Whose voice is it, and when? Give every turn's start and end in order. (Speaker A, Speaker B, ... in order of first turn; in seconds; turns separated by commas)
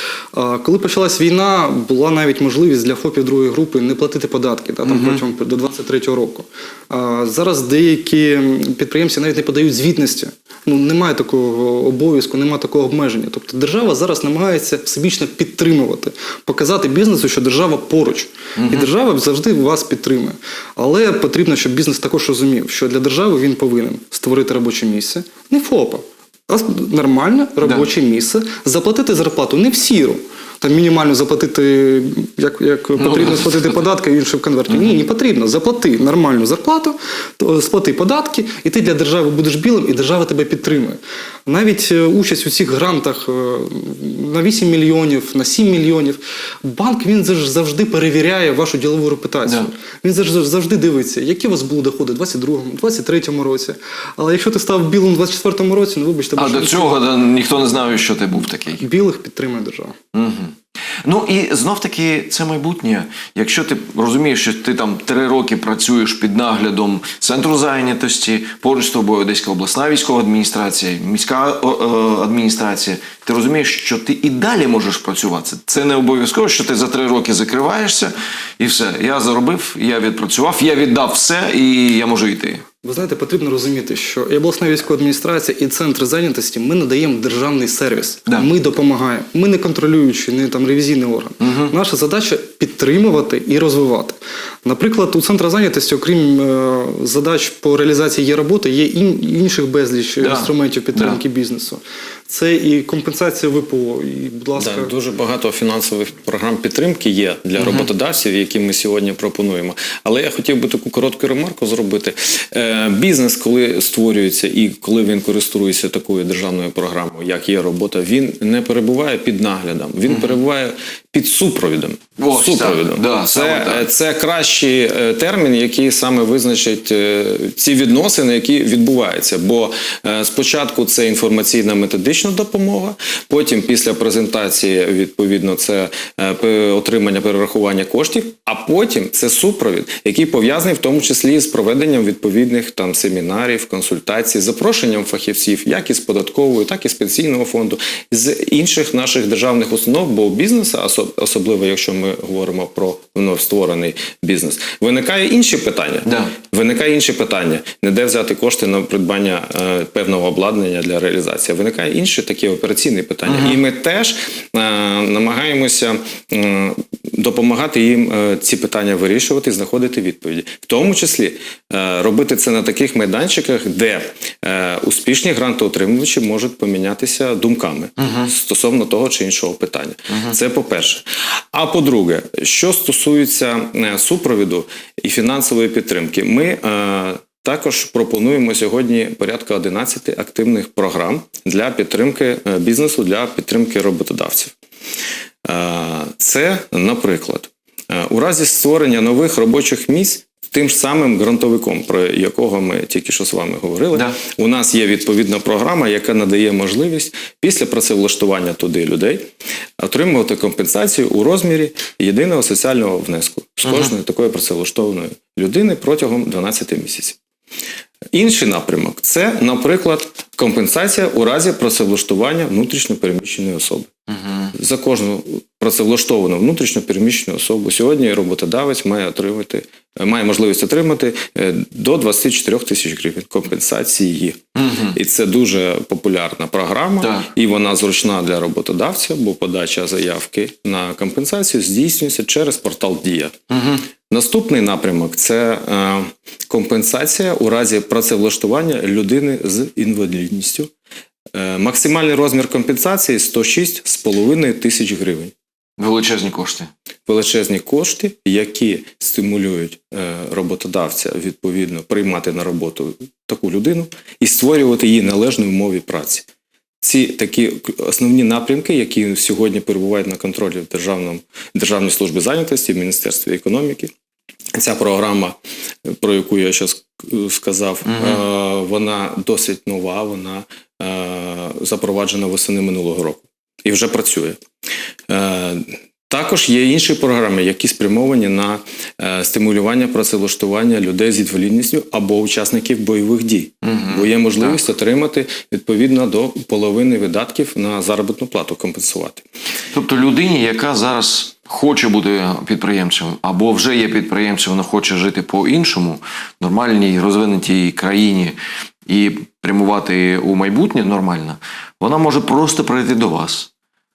Speaker A: 0.3-57.0, Speaker B: 4.8-5.2, Speaker B: 18.6-18.9, Speaker B: 33.0-33.6, Speaker B: 56.4-58.8, Speaker A: 58.8-60.0, Speaker B: 60.1-82.6, Speaker A: 82.8-104.9, Speaker B: 91.4-91.7, Speaker B: 100.2-101.2, Speaker C: 104.6-194.5, Speaker B: 107.6-107.9, Speaker B: 120.1-120.4, Speaker B: 122.2-123.9, Speaker B: 156.1-156.3, Speaker B: 163.3-163.6, Speaker B: 178.0-178.3, Speaker C: 195.4-217.2, Speaker B: 213.7-213.9, Speaker C: 218.1-223.9, Speaker B: 224.1-224.5, Speaker C: 224.5-243.3, Speaker B: 234.6-235.0, Speaker B: 237.0-237.3, Speaker B: 243.5-243.8, Speaker C: 244.1-250.7, Speaker C: 251.3-255.3, Speaker B: 255.8-256.7, Speaker C: 257.1-266.3, Speaker C: 266.8-273.9, Speaker C: 274.6-284.4, Speaker B: 277.9-278.2, Speaker C: 285.1-299.2, Speaker B: 293.6-294.6, Speaker B: 299.7-313.5